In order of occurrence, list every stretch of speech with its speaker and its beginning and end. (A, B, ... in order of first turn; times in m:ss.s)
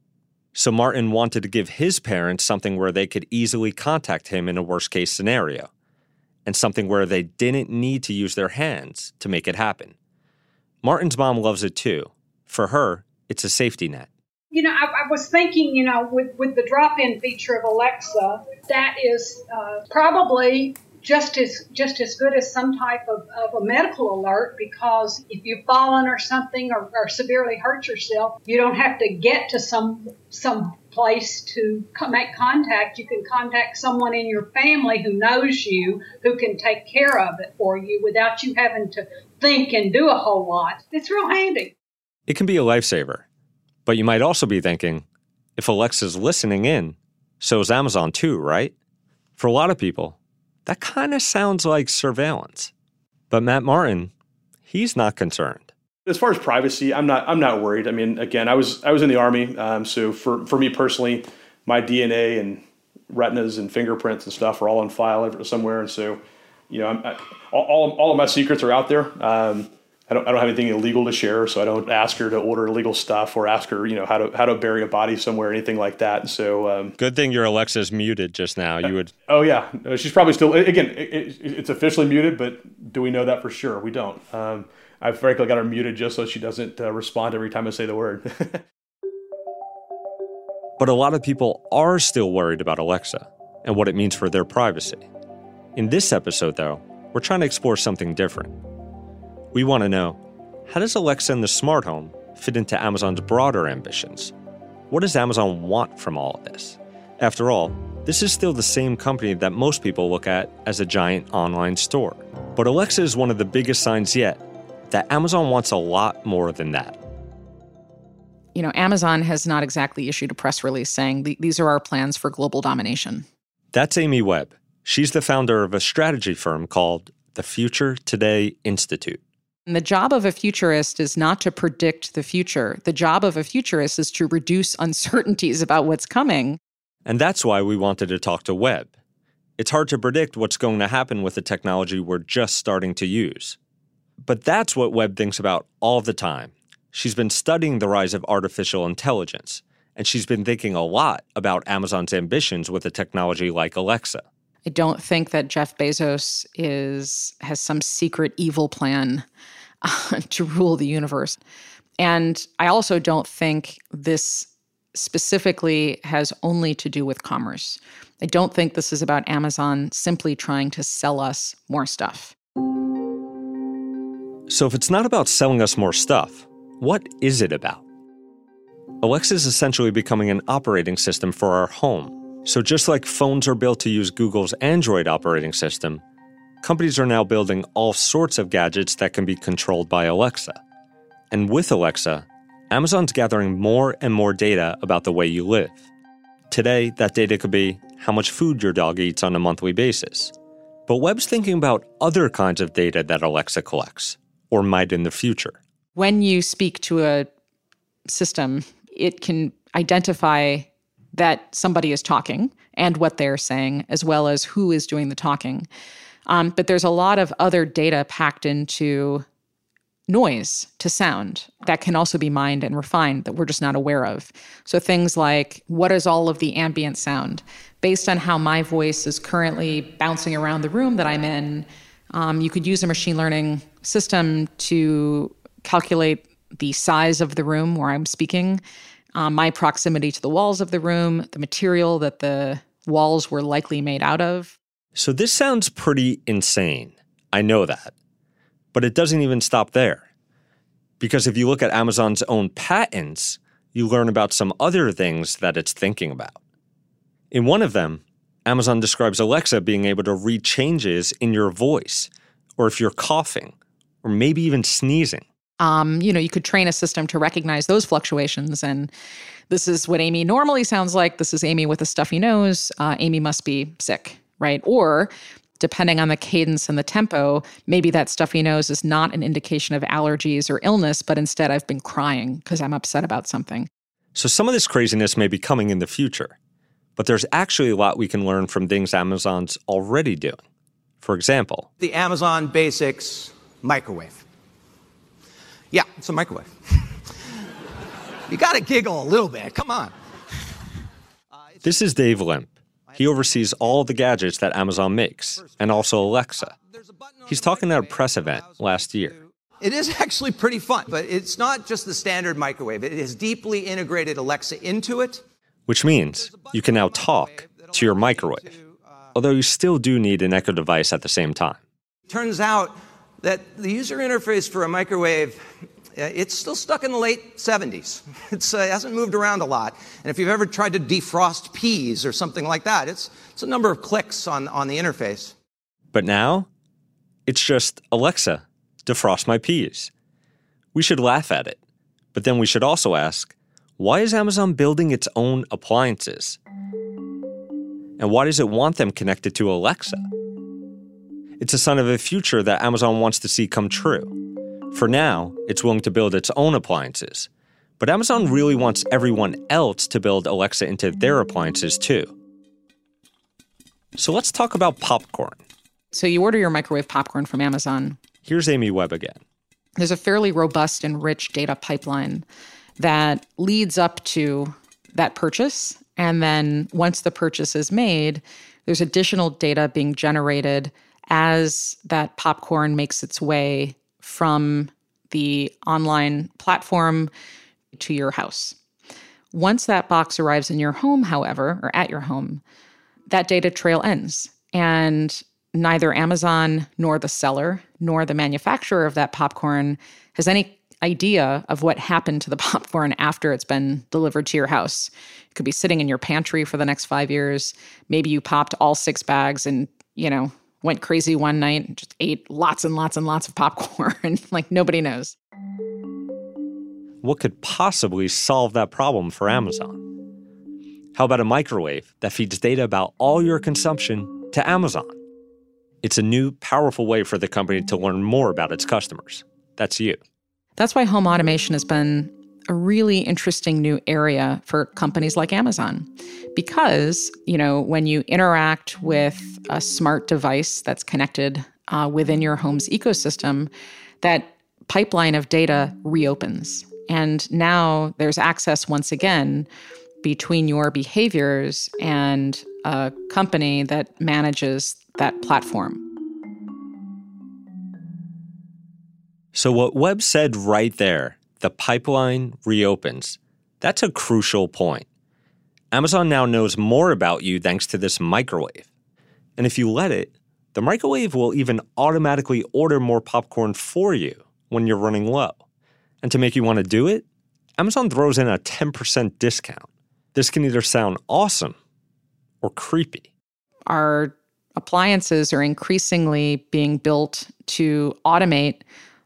0:00.5-0:05.7 A
0:06.5-0:10.0 A
0:10.8-0:14.1 A
0:14.5-0:41.8 B
0:42.3-0:43.2 A
0:43.9-0:45.0 A
0:45.6-0:48.7 A
0:49.4-0:52.7 A
0:53.3-0:54.1 A
0:54.7-0:55.7 A
0:56.0-1:17.0 C
1:17.0-1:19.1 A
1:19.3-1:28.6 C
1:30.8-1:35.0 A
1:35.8-1:38.6 A
1:39.5-1:44.3 A
1:44.9-1:57.0 A
1:58.5-2:03.2 D
2:03.7-2:09.2 A
2:09.7-2:16.6 D
2:17.0-2:18.9 A
2:19.6-2:23.6 A
2:24.2-2:34.2 A
2:34.6-2:39.2 D
2:39.8-2:41.4 D
2:42.0-2:52.4 D
2:54.5-2:57.8 A
2:59.0-3:06.0 A
3:06.6-3:10.6 A
3:11.3-3:15.8 A
3:16.5-3:20.3 A
3:20.9-3:25.6 A
3:26.0-3:27.3 D
3:28.1-3:35.7 D
3:36.3-3:39.2 D
3:40.1-3:58.6 D
3:59.1-4:04.6 D
4:05.0-4:07.9 A
4:08.7-4:10.1 A
4:11.0-4:16.4 A
4:17.3-4:25.2 A
4:25.6-4:28.9 D
4:29.5-4:43.7 D
4:44.1-4:46.4 A
4:47.0-4:50.4 A
4:51.0-4:51.7 A
4:51.8-4:54.2 E
4:55.7-4:57.0 E
4:58.3-4:59.9 E
5:01.4-5:01.7 E
5:01.6-5:06.6 A
5:02.9-5:03.8 E
5:05.4-5:05.8 E
5:06.4-5:15.2 E
5:07.3-5:09.1 A
5:15.7-5:18.5 A
5:16.1-5:19.0 E
5:19.1-5:21.6 A
5:22.1-5:35.4 E
5:35.9-5:36.5 A
5:37.2-5:39.9 A
5:40.8-5:41.6 A
5:42.1-5:46.4 A
5:48.0-5:50.0 A
5:51.4-5:54.2 A
5:54.7-5:57.3 A
5:57.8-6:02.1 A
6:04.0-6:05.4 A
6:05.9-6:08.0 D
6:08.2-6:09.2 A
6:09.8-6:12.2 D
6:12.8-6:27.1 D
6:27.7-6:28.6 D
6:29.3-6:32.4 D
6:33.1-6:55.2 D
6:57.0-6:59.8 A
7:01.0-7:05.0 A
7:05.8-7:10.0 A
7:10.6-7:23.5 D
7:24.0-7:29.5 D
7:30.0-7:35.8 D
7:39.3-7:44.9 A
7:45.7-7:48.7 A
7:49.4-7:55.4 A
7:56.0-7:57.0 A
7:57.6-8:01.6 A
8:02.4-8:03.1 A
8:03.7-8:08.6 D